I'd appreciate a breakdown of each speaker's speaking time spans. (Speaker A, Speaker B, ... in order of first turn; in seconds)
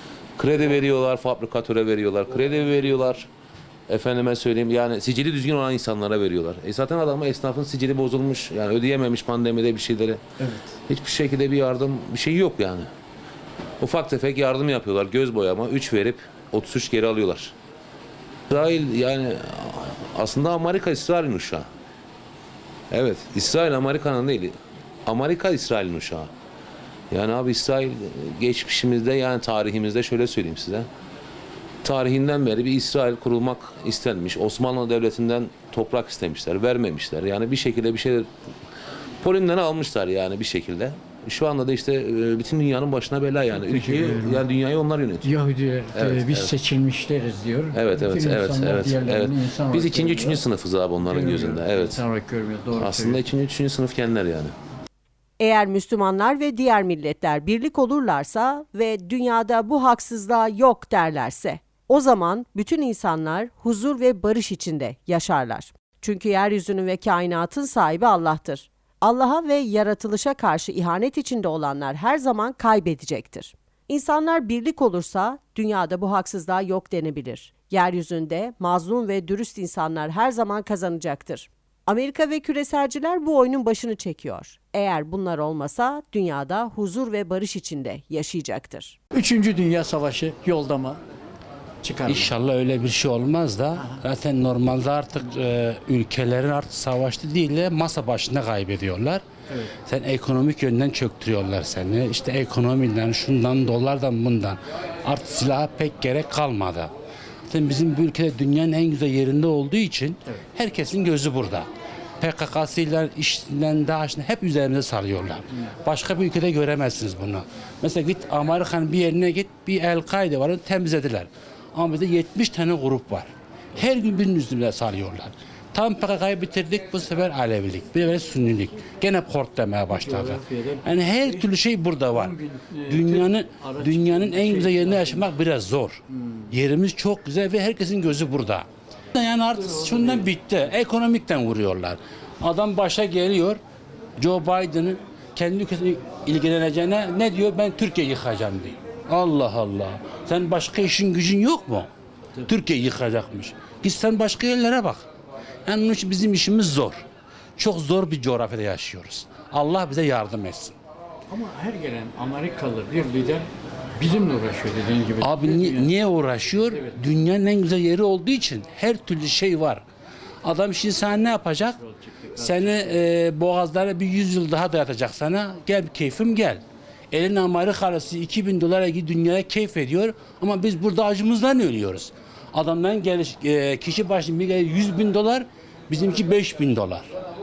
Speaker A: 0.4-3.3, 3.9-10.2, 10.9-12.9, 13.8-17.5, 18.5-21.7, 22.9-24.5, 25.1-26.3, 27.1-30.9, 31.8-38.3, 39.2-45.3, 45.9-46.6, 47.7-52.0, 52.8-54.5
Speaker B: 43.5-44.4, 45.2-50.4, 51.0-53.2, 89.1-91.0, 91.8-92.3, 129.9-130.8, 132.1-135.3, 161.3-165.9, 171.9-172.8
Speaker C: 55.4-89.0
Speaker D: 92.1-99.2, 99.8-106.9, 107.5-111.7, 112.2-136.0, 136.5-143.6, 144.2-151.9, 152.4-155.1, 155.7-157.0, 157.6-160.7, 165.2-169.8, 170.4-171.8, 172.3-187.1